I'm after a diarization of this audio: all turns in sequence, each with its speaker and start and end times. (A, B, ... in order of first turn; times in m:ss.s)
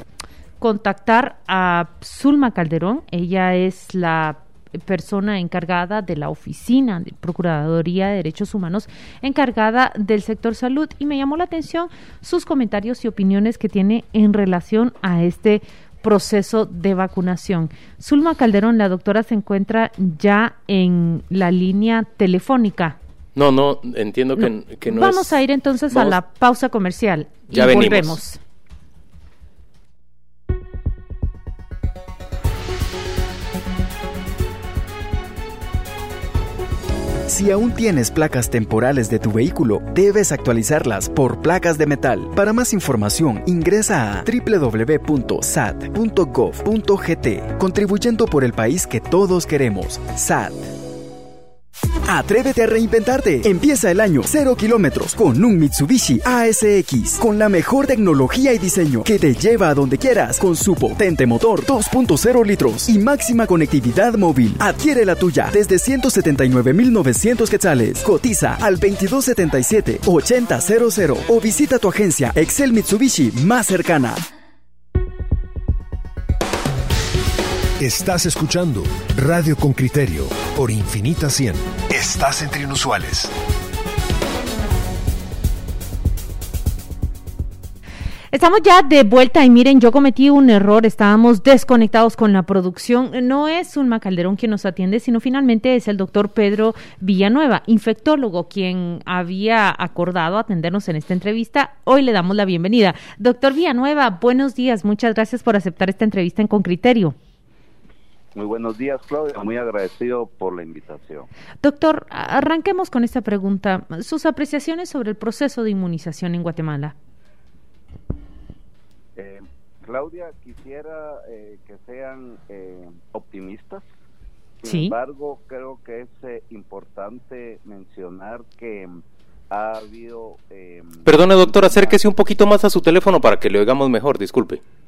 0:00.6-0:23.0 A
0:23.3-0:25.4 B
0:24.4-0:28.4 A
0:25.9-0:26.2 B
0:27.5-0:28.2 B
0:37.3-0:50.7 C
0:52.0-1:14.2 C
1:17.8-1:23.3 D
1:28.3-1:47.2 A
1:48.3-1:51.3 E
1:51.6-1:56.9 A
1:59.2-2:03.9 E
2:04.6-2:12.0 E
2:04.6-2:04.9 A
2:11.0-2:14.6 B